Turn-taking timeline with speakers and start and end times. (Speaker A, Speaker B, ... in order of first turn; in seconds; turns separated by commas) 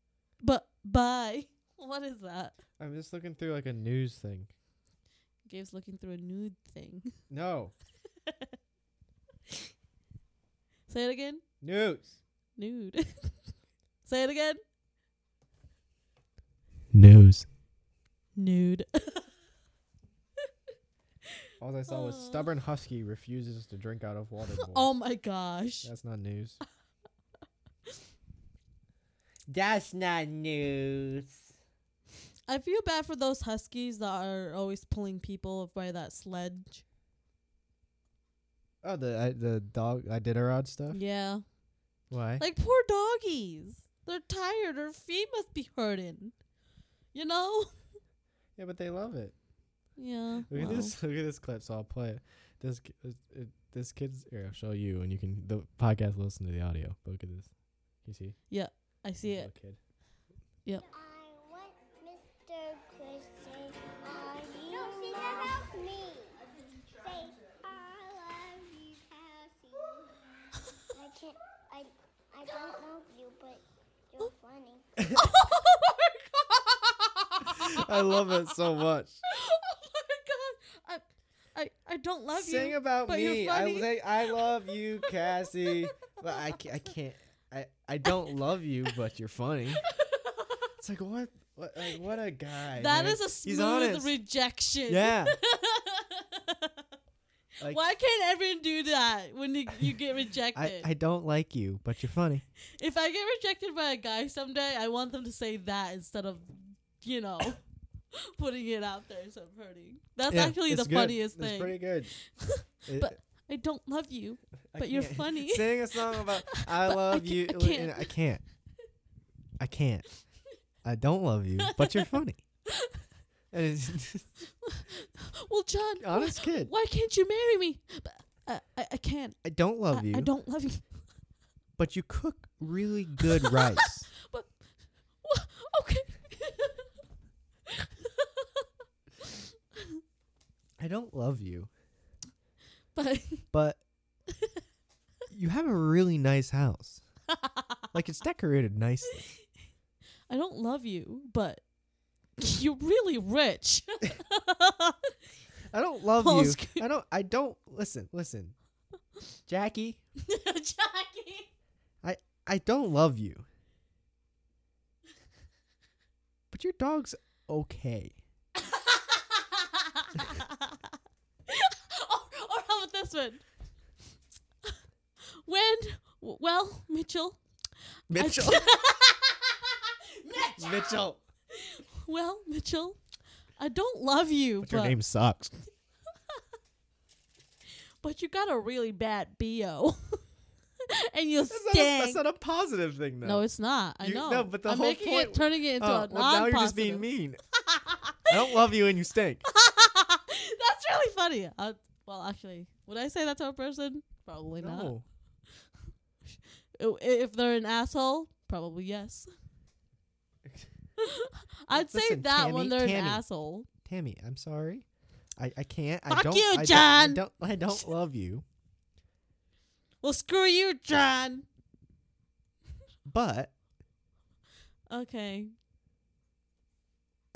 Speaker A: 0.4-2.5, Speaker B: 2.8-4.5, Speaker A: 5.5-7.2, Speaker B: 7.3-7.7, Speaker A: 10.9-11.4, Speaker B: 11.6-12.2, Speaker A: 12.6-13.3, Speaker A: 14.0-14.6, Speaker B: 16.9-17.4, Speaker A: 18.4-19.3, Speaker B: 21.6-24.9, Speaker A: 21.9-22.5, Speaker A: 24.5-25.9, Speaker B: 25.8-26.6, Speaker C: 29.5-31.4, Speaker A: 32.5-36.8, Speaker B: 38.8-41.0, Speaker A: 40.9-41.4, Speaker B: 42.1-42.4, Speaker A: 42.4-46.4, Speaker A: 47.1-47.7, Speaker B: 48.6-49.3, Speaker A: 50.0-50.9, Speaker B: 50.5-58.4, Speaker A: 58.5-59.5, Speaker B: 59.2-59.8, Speaker D: 60.9-70.2, Speaker D: 70.8-75.3, Speaker A: 75.1-78.5, Speaker B: 77.6-79.2, Speaker A: 79.3-84.0, Speaker B: 82.3-89.8, Speaker A: 85.5-86.4, Speaker A: 89.8-90.7, Speaker B: 90.8-94.1, Speaker A: 92.7-96.8, Speaker B: 94.9-95.3, Speaker A: 97.6-100.9, Speaker B: 100.5-102.4, Speaker A: 102.8-107.6, Speaker A: 108.1-118.1, Speaker B: 110.3-112.1, Speaker B: 112.9-113.2, Speaker B: 114.7-118.4, Speaker B: 119.6-120.0, Speaker B: 120.8-122.4, Speaker A: 121.6-122.0, Speaker A: 122.7-123.0, Speaker B: 123.5-124.3, Speaker A: 124.6-129.4, Speaker B: 126.0-126.7, Speaker B: 129.4-130.3, Speaker A: 129.9-130.8, Speaker B: 131.8-134.1, Speaker A: 134.2-134.6, Speaker A: 135.2-136.9, Speaker A: 137.7-138.7, Speaker B: 140.8-141.7, Speaker A: 142.9-143.5, Speaker B: 143.5-143.8, Speaker B: 145.3-147.0, Speaker A: 147.3-147.8, Speaker B: 147.9-149.2, Speaker A: 150.3-151.6, Speaker A: 152.4-155.1, Speaker B: 155.7-158.5, Speaker A: 156.2-156.8, Speaker B: 159.5-160.0, Speaker A: 160.2-161.5, Speaker B: 162.0-163.4, Speaker B: 166.5-168.2, Speaker A: 168.6-170.8, Speaker A: 171.5-173.4, Speaker A: 175.4-177.4, Speaker B: 178.1-178.7, Speaker A: 178.1-183.0, Speaker B: 180.5-181.2, Speaker A: 183.6-185.0, Speaker B: 184.6-185.6, Speaker A: 188.0-190.2, Speaker A: 190.9-192.2, Speaker B: 191.5-193.4, Speaker A: 193.2-197.1, Speaker B: 194.0-197.4, Speaker A: 197.6-198.3, Speaker B: 198.3-199.4, Speaker A: 199.4-204.9, Speaker B: 204.6-205.0, Speaker A: 206.3-209.3, Speaker B: 210.4-210.7, Speaker A: 211.0-213.7, Speaker B: 211.7-213.2, Speaker B: 213.8-214.8, Speaker B: 215.4-218.4, Speaker A: 216.1-217.8, Speaker A: 220.0-221.4, Speaker B: 223.1-223.5, Speaker A: 224.9-225.5